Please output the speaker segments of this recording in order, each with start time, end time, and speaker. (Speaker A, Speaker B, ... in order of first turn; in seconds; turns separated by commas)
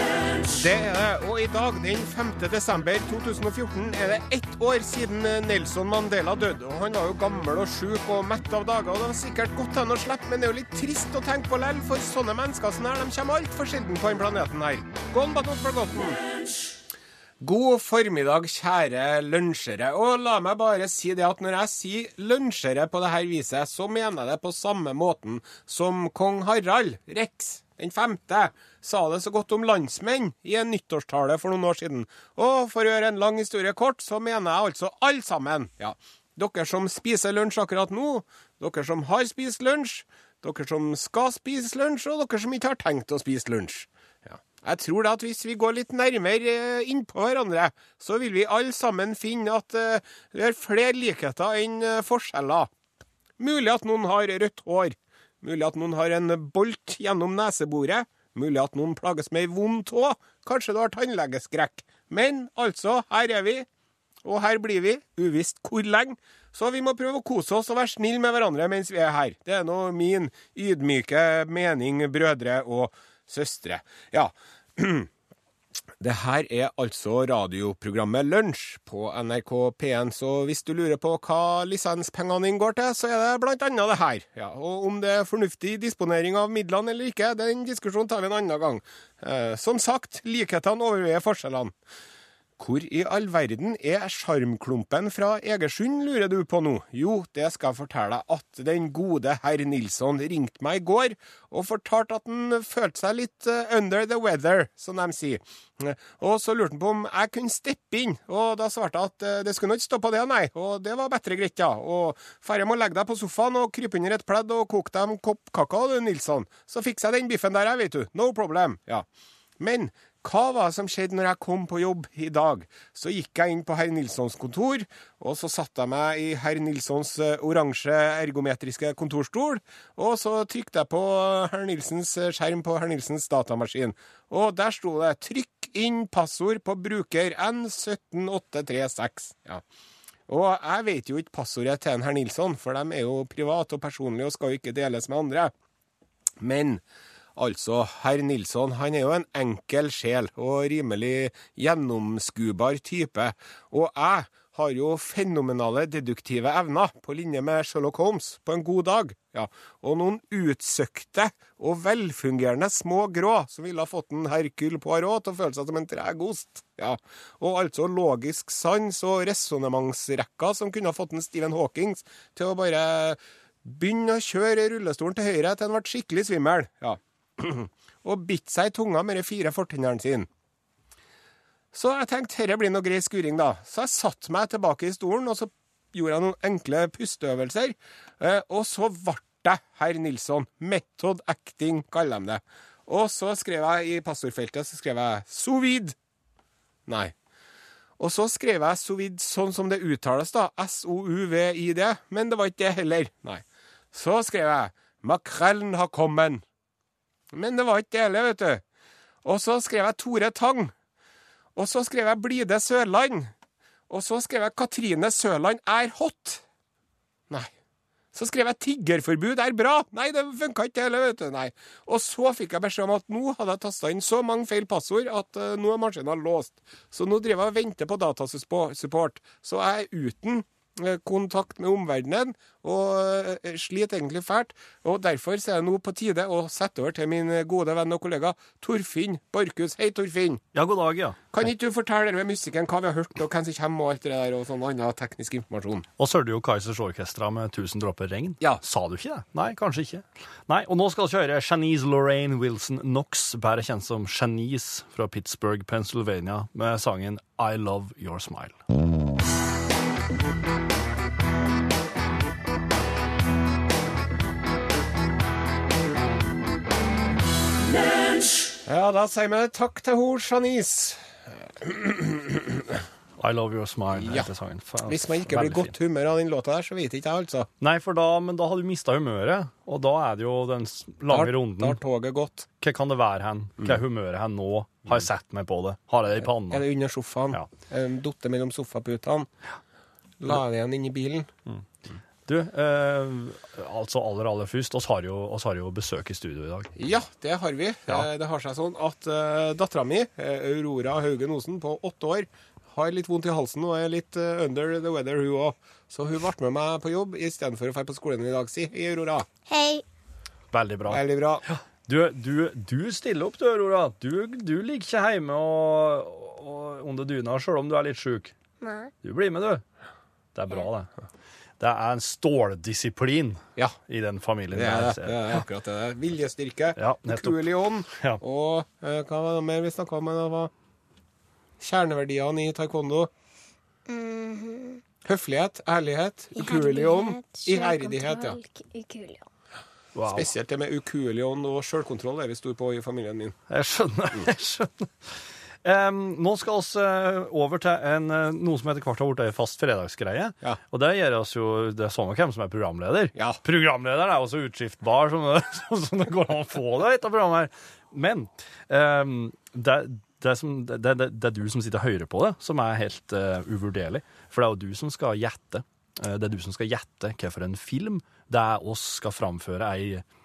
Speaker A: 0.4-16.2, Speaker A: 17.4-52.7, Speaker A: 53.4-63.7, Speaker A: 64.2-75.1, Speaker A: 76.0-91.7, Speaker A: 92.6-119.1, Speaker A: 119.6-139.6, Speaker A: 140.3-145.5, Speaker A: 146.4-146.8, Speaker A: 147.4-180.3, Speaker A: 181.7-196.0, Speaker A: 196.9-197.1, Speaker A: 198.0-206.4, Speaker A: 207.3-208.6, Speaker A: 209.2-210.7, Speaker A: 211.6-213.3, Speaker A: 213.9-216.4, Speaker A: 218.1-240.4, Speaker B: 240.5-241.3, Speaker A: 241.3-245.9, Speaker B: 246.0-258.6, Speaker A: 268.6-272.8, Speaker B: 273.2-275.7, Speaker A: 273.9-274.3, Speaker A: 274.9-277.5, Speaker B: 277.6-281.8, Speaker A: 281.1-282.5, Speaker B: 282.6-286.6, Speaker A: 286.2-289.3, Speaker A: 290.2-291.3, Speaker B: 292.3-296.7, Speaker A: 296.8-309.3, Speaker C: 309.5-309.8, Speaker B: 310.5-318.3, Speaker A: 310.9-311.4, Speaker C: 318.6-318.9, Speaker B: 319.0-319.6, Speaker B: 320.4-320.9, Speaker B: 321.6-325.4, Speaker A: 324.5-330.5, Speaker B: 326.8-328.2, Speaker A: 331.6-333.1, Speaker C: 333.9-334.8, Speaker A: 335.0-338.4, Speaker C: 336.4-339.2, Speaker B: 340.0-340.3, Speaker A: 340.1-343.4, Speaker B: 343.5-344.9, Speaker B: 345.6-370.0